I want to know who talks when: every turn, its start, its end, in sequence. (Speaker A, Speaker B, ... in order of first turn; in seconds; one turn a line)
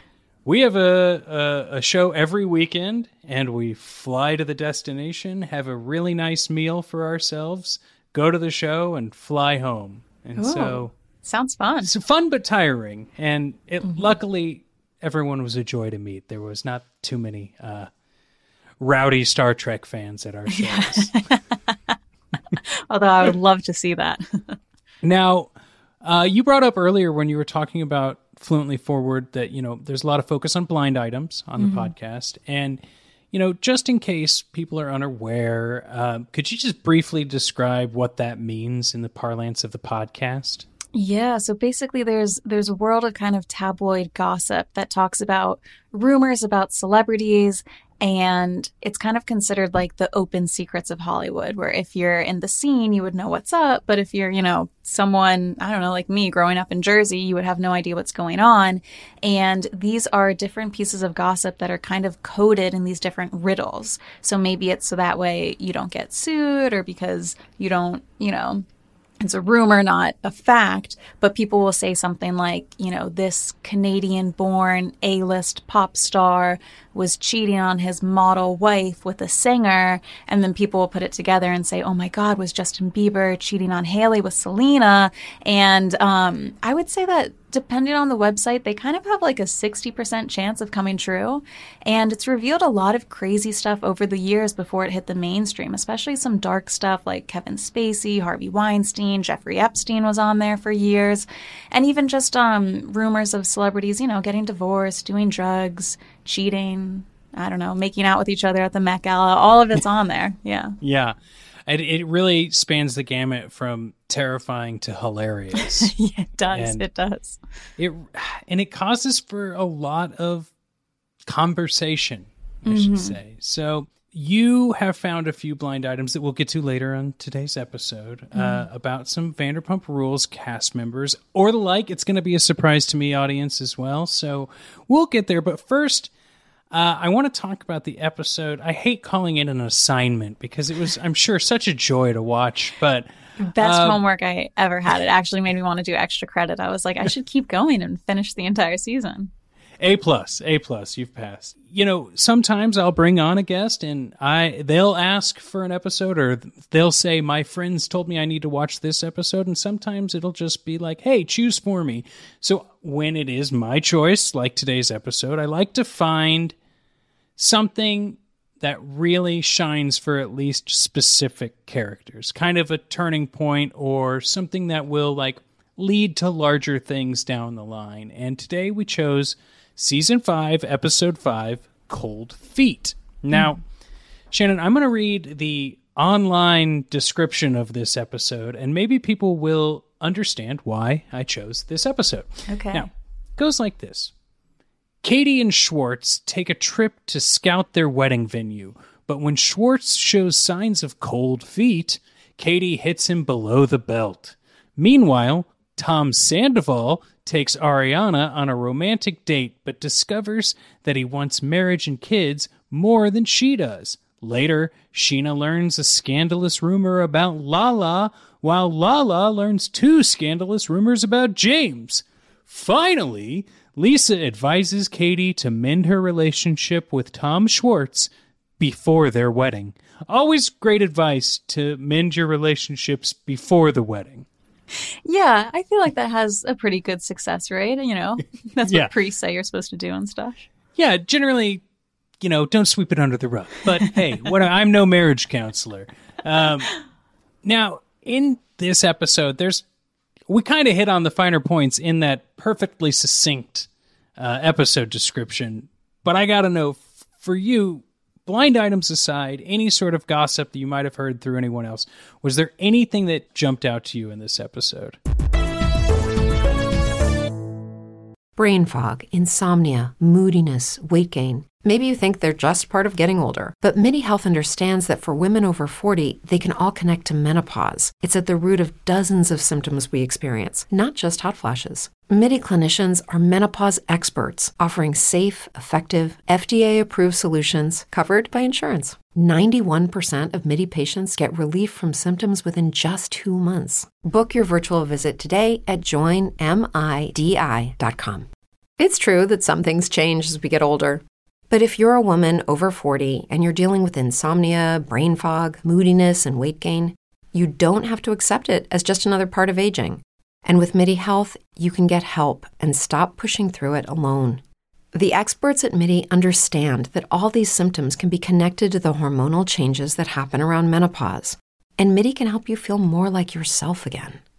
Speaker A: 0.5-10.9
Speaker B: 10.4-11.9
Speaker A: 11.8-17.9
Speaker A: 18.8-21.1
Speaker B: 20.5-22.0
Speaker B: 22.9-24.6
Speaker A: 25.0-40.7
Speaker B: 31.6-31.9
Speaker B: 40.9-68.7
Speaker B: 69.2-110.8
Speaker A: 110.8-115.9
Speaker B: 115.5-117.4
Speaker A: 116.5-116.8
Speaker A: 117.8-120.5
Speaker A: 121.2-136.1
Speaker B: 122.7-123.2
Speaker B: 128.3-128.7
Speaker A: 136.7-144.0
Speaker B: 143.4-149.3
Speaker A: 149.8-166.6
Speaker A: 167.4-183.6
Speaker A: 184.3-194.1
Speaker B: 192.5-192.9
Speaker A: 195.0-234.3
Speaker B: 235.1-240.5
Speaker A: 238.6-238.9
Speaker A: 240.8-241.6
Speaker A: 242.2-246.7
Speaker A: 247.4-249.7
Speaker A: 250.3-265.0
Speaker C: 268.4-298.3
Speaker C: 298.8-314.4
Speaker C: 314.9-324.2